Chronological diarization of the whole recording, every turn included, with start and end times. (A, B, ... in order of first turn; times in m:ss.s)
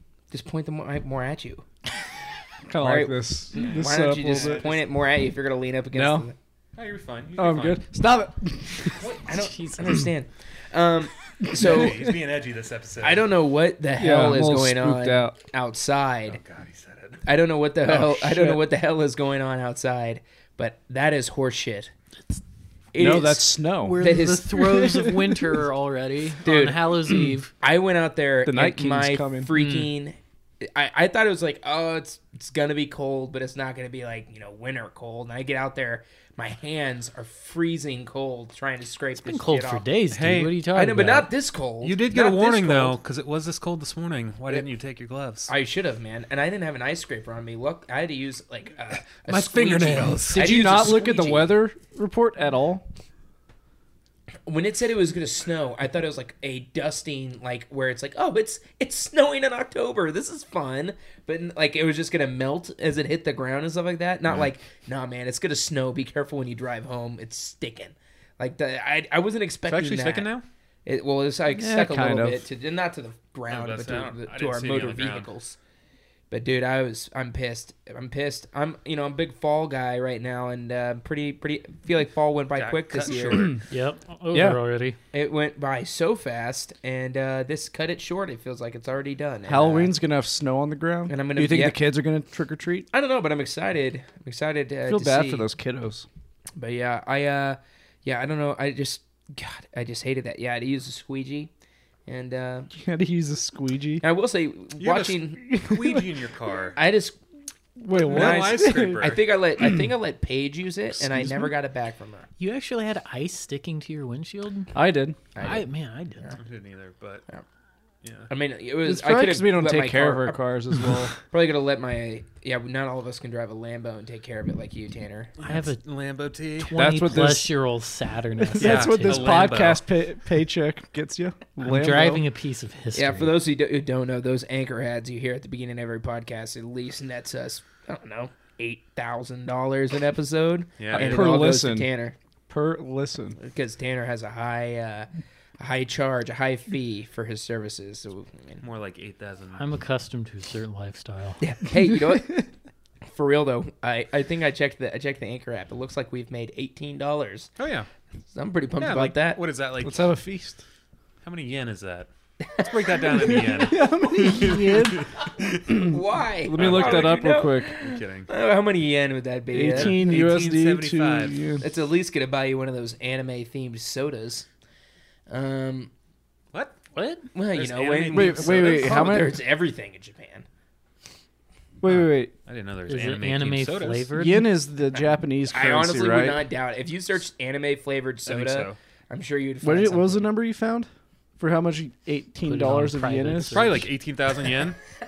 0:00.3-0:01.7 A
0:02.7-0:04.7 B
0:02.8-0:06.4 A
0:06.0-0:06.3 B
0:06.8-0:07.8 C
0:07.4-0:09.1 B
0:09.0-0:12.1 A
0:09.3-0:10.0 D
0:11.4-0:11.9 B
0:11.5-0:13.3 C
0:13.0-0:16.4 A
0:14.0-0:15.4 B
0:16.3-0:17.2 C
0:17.2-0:21.9 A
0:17.9-0:18.6 B
0:22.9-0:24.6 A
0:23.0-0:25.6 B
0:23.8-0:27.5 D
0:26.4-0:26.8 A
0:27.6-0:39.9 A
0:28.5-0:29.5 B
0:39.2-0:41.3 D
0:40.1-0:40.6 C
0:40.7-0:43.0 A
0:41.8-0:45.5 C
0:45.5-0:51.6 A
0:49.1-0:50.6 C
0:50.3-0:52.8 B
0:54.5-1:10.3 A
1:09.7-1:10.4 C
1:10.9-1:15.6 A
1:11.6-1:12.5 B
1:13.5-1:15.3 C
1:16.3-1:23.5 A
1:22.6-1:23.6 C
1:23.3-1:23.6 B
1:23.7-1:25.0 D
1:24.3-1:24.6 B
1:25.1-1:29.9 A
1:29.5-1:32.9 B
1:31.1-1:31.8 A
1:32.9-1:35.5 A
1:34.9-1:36.1 B
1:36.6-1:41.5 A
1:42.1-1:42.7 A
1:42.7-1:44.0 B
1:44.0-1:45.4 A
1:44.8-1:46.8 C
1:45.4-1:46.0 B
1:46.8-1:47.2 A
1:47.8-1:49.2 B
1:47.9-1:49.2 C
1:48.1-1:52.3 A
1:51.0-1:51.5 B
1:52.4-1:54.7 D
1:54.7-1:55.2 B
1:55.4-1:56.4 A
1:55.4-1:56.3 D
1:56.4-1:57.2 C
1:58.0-1:58.3 C
1:58.3-2:00.4 A
1:58.8-2:01.2 B
2:01.3-2:05.3 A
2:05.4-2:06.8 C
2:05.4-2:05.8 D
2:06.6-2:09.6 D
2:06.8-2:07.5 B
2:08.5-2:12.2 B
2:08.5-2:09.8 C
2:11.6-2:13.3 D
2:13.0-2:22.2 A
2:20.8-2:21.2 C
2:20.9-2:21.9 B
2:22.5-2:23.4 B
2:23.4-2:28.6 A
2:28.6-2:29.6 C
2:29.6-2:31.4 D
2:31.4-2:32.5 A
2:33.1-2:37.5 A
2:37.6-2:37.9 C
2:38.3-2:39.4 A
2:38.8-2:40.0 C
2:39.8-2:40.6 B
2:41.2-2:45.3 C
2:42.5-2:43.6 A
2:43.5-2:47.7 B
2:45.2-2:50.1 A
2:46.5-2:48.3 C
2:49.5-2:51.6 B
2:49.7-2:51.4 C
2:51.6-2:54.5 A
2:55.3-2:55.9 A
2:56.5-2:56.8 C
2:56.9-2:57.3 D
2:57.3-3:00.5 A
2:57.5-2:59.1 C
2:58.1-2:59.4 B
3:01.8-3:02.3 B
3:01.8-3:04.1 C
3:02.9-3:04.5 D
3:04.1-3:06.4 B
3:05.5-3:10.3 A
3:08.3-3:08.8 C
3:09.6-3:13.9 B
3:12.4-3:13.9 D
3:13.5-3:14.8 C